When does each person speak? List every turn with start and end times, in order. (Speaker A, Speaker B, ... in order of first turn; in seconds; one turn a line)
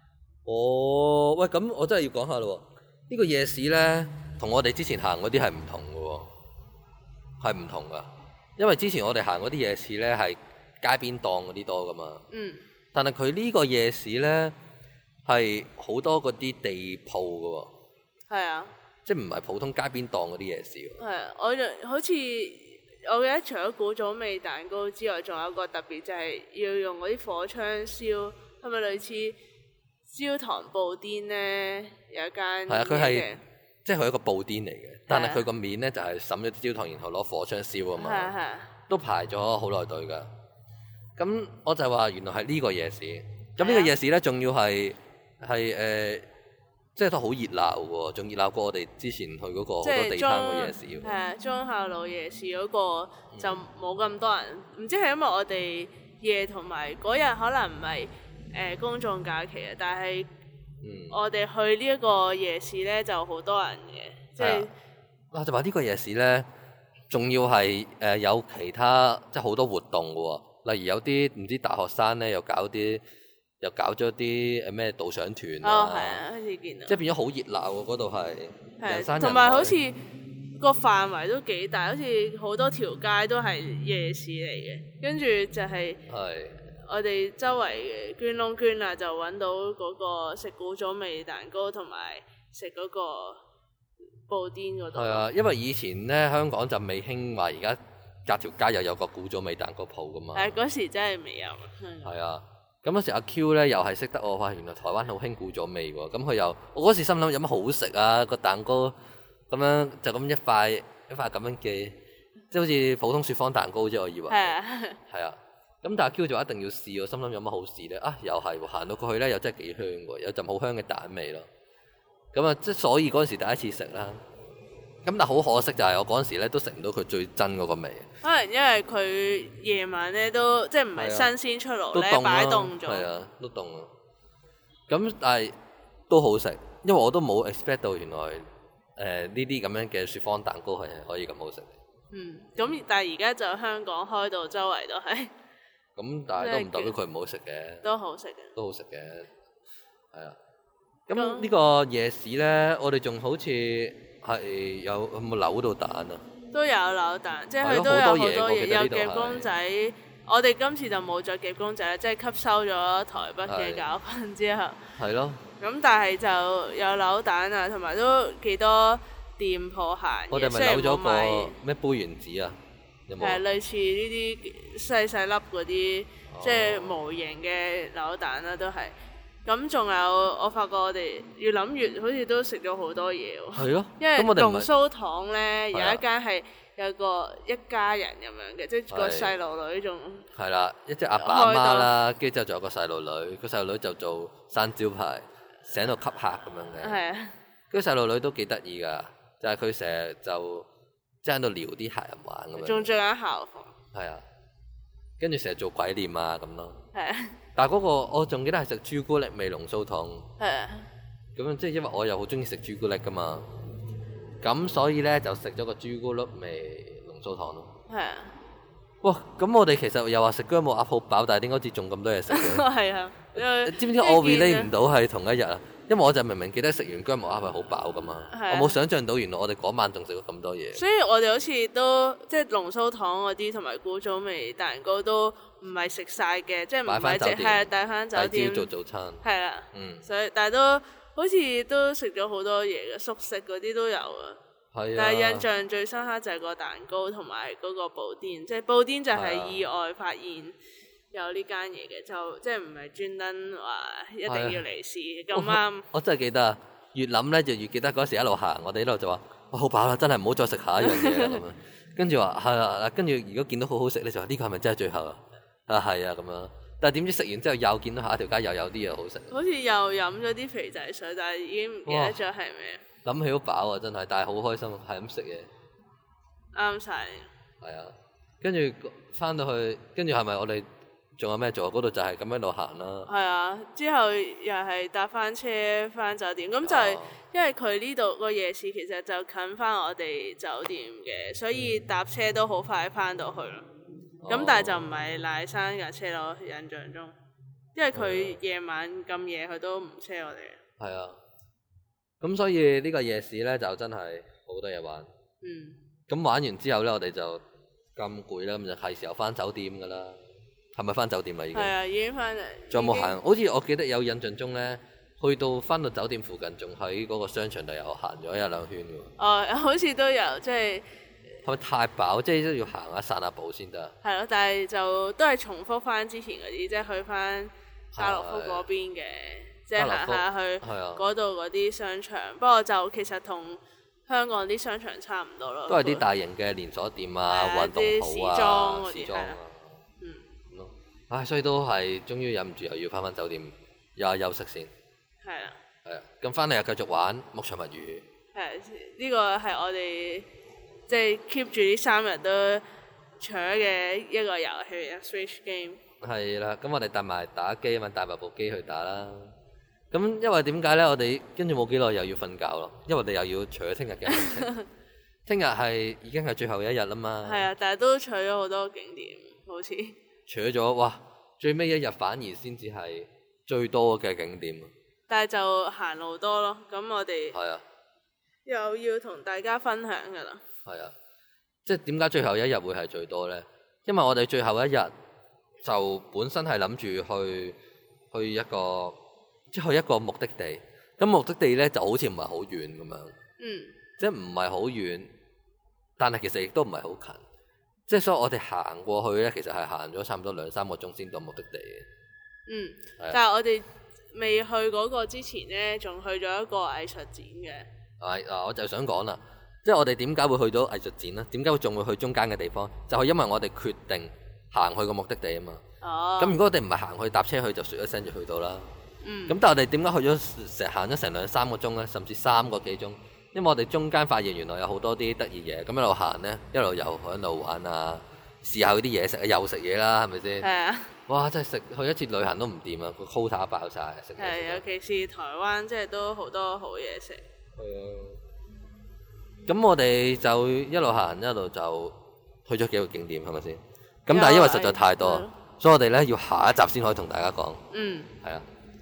Speaker A: 0.5-6.3
Speaker A: 7.4-12.2
Speaker B: 12.3-12.6
Speaker A: 12.9-14.5
Speaker A: 15.2-17.7
Speaker B: 18.3-18.7
Speaker A: 19.0-21.0
Speaker B: 21.0-29.4
Speaker B: 30.1-33.4
Speaker A: 32.7-33.3
Speaker A: 33.8-38.3
Speaker B: 35.1-35.5
Speaker B: 38.0-38.7
Speaker A: 38.9-40.3
Speaker A: 41.2-46.3
Speaker B: 43.6-43.9
Speaker A: 46.9-51.1
Speaker B: 49.8-60.3
Speaker A: 53.3-53.6
Speaker A: 60.8-61.2
Speaker B: 61.1-64.7
Speaker A: 64.4-64.7
Speaker A: 65.3-66.5
Speaker A: 67.1-73.0
Speaker A: 73.6-76.2
Speaker B: 75.6-77.0
Speaker A: 76.9-79.8
Speaker B: 78.8-80.0
Speaker B: 80.6-86.0
Speaker A: 86.1-86.6
Speaker B: 86.8-93.4
Speaker B: 94.3-95.2
Speaker A: 94.9-100.6
Speaker B: 100.3-102.1
Speaker A: 102.0-108.9
Speaker A: 109.5-112.0
Speaker A: 112.5-114.6
Speaker B: 114.3-115.0
Speaker A: 115.1-121.5
Speaker A: 122.3-124.2
Speaker A: 125.0-128.1
Speaker B: 128.2-133.1
Speaker A: 131.0-131.3
Speaker A: 131.9-133.9
Speaker A: 134.9-135.5
Speaker A: 136.1-138.4
Speaker A: 139.0-141.7
Speaker B: 142.1-145.3
Speaker A: 146.0-147.9
Speaker B: 146.4-146.9
Speaker B: 147.8-148.5
Speaker A: 148.5-149.3
Speaker A: 151.1-156.2
Speaker B: 151.1-151.5
Speaker B: 156.5-164.8
Speaker A: 157.6-159.5
Speaker A: 163.5-163.9
Speaker A: 165.0-165.4
Speaker B: 165.6-171.6
Speaker A: 170.3-172.6
Speaker A: 173.1-173.4
Speaker B: 173.2-190.2
Speaker A: 176.3-177.0
Speaker A: 183.5-184.7
Speaker A: 185.7-186.0
Speaker A: 188.9-189.3
Speaker A: 190.3-197.0
Speaker B: 191.2-191.9
Speaker B: 196.8-197.3
Speaker A: 197.7-200.7
Speaker A: 201.2-202.9
Speaker B: 202.6-203.8
Speaker A: 203.9-204.2
Speaker A: 205.2-206.8
Speaker B: 206.9-207.4
Speaker A: 207.6-210.3
Speaker B: 210.4-210.9
Speaker A: 211.4-213.5
Speaker A: 214.4-217.7
Speaker B: 217.9-218.4
Speaker A: 219.0-222.7
Speaker B: 222.3-224.7
Speaker A: 223.3-230.8
Speaker B: 228.3-228.8
Speaker B: 230.8-238.7
Speaker A: 236.9-239.2
Speaker B: 239.2-244.4
Speaker A: 239.7-240.0
Speaker A: 244.7-245.5
Speaker B: 245.0-250.6
Speaker A: 249.1-249.6
Speaker B: 251.1-255.9
Speaker A: 254.3-254.6
Speaker A: 255.3-269.3
Speaker B: 260.8-261.4
Speaker B: 269.3-272.8
Speaker A: 271.9-272.2
Speaker A: 273.0-275.5
Speaker B: 276.5-277.3
Speaker A: 277.6-280.6
Speaker A: 281.2-283.1
Speaker B: 283.1-293.7
Speaker A: 286.6-287.2
Speaker A: 294.2-295.0
Speaker B: 294.3-297.1
Speaker B: 297.8-300.6
Speaker A: 297.9-298.4
Speaker A: 300.8-301.2
Speaker A: 302.2-305.1
Speaker B: 305.4-305.8
Speaker A: 306.1-307.4
Speaker A: 308.0-310.2
Speaker A: 310.8-311.7
Speaker B: 311.5-313.2
Speaker A: 312.7-319.1
Speaker B: 319.2-320.9
Speaker A: 321.4-323.9
Speaker B: 324.0-336.0
Speaker A: 327.9-328.7
Speaker A: 329.8-331.0
Speaker A: 335.7-339.8
Speaker B: 337.3-339.4
Speaker A: 340.5-344.7
Speaker B: 345.2-345.6
Speaker A: 345.8-348.1
Speaker B: 348.4-350.3
Speaker B: 350.9-352.6
Speaker B: 353.2-355.8
Speaker A: 356.0-359.3
Speaker A: 359.9-364.5
Speaker B: 364.1-364.6
Speaker A: 365.2-367.5
Speaker B: 367.2-370.0
Speaker A: 370.3-374.7
Speaker B: 375.1-377.4
Speaker A: 377.3-377.6
Speaker B: 378.5-380.4
Speaker A: 380.6-380.9
Speaker A: 381.6-384.9
Speaker A: 385.6-387.6
Speaker A: 388.1-389.0
Speaker A: 389.5-393.1
Speaker B: 393.4-393.7
Speaker A: 394.0-395.1
Speaker A: 396.0-397.2
Speaker A: 397.9-401.9
Speaker B: 402.5-407.7
Speaker A: 408.0-415.6
Speaker B: 415.8-416.4
Speaker A: 416.2-418.7
Speaker B: 419.0-419.4
Speaker A: 419.3-430.5
Speaker B: 430.4-430.9
Speaker A: 431.1-434.6
Speaker B: 434.2-437.2
Speaker A: 437.6-438.2
Speaker A: 439.5-447.6
Speaker B: 444.1-445.4
Speaker B: 447.7-448.1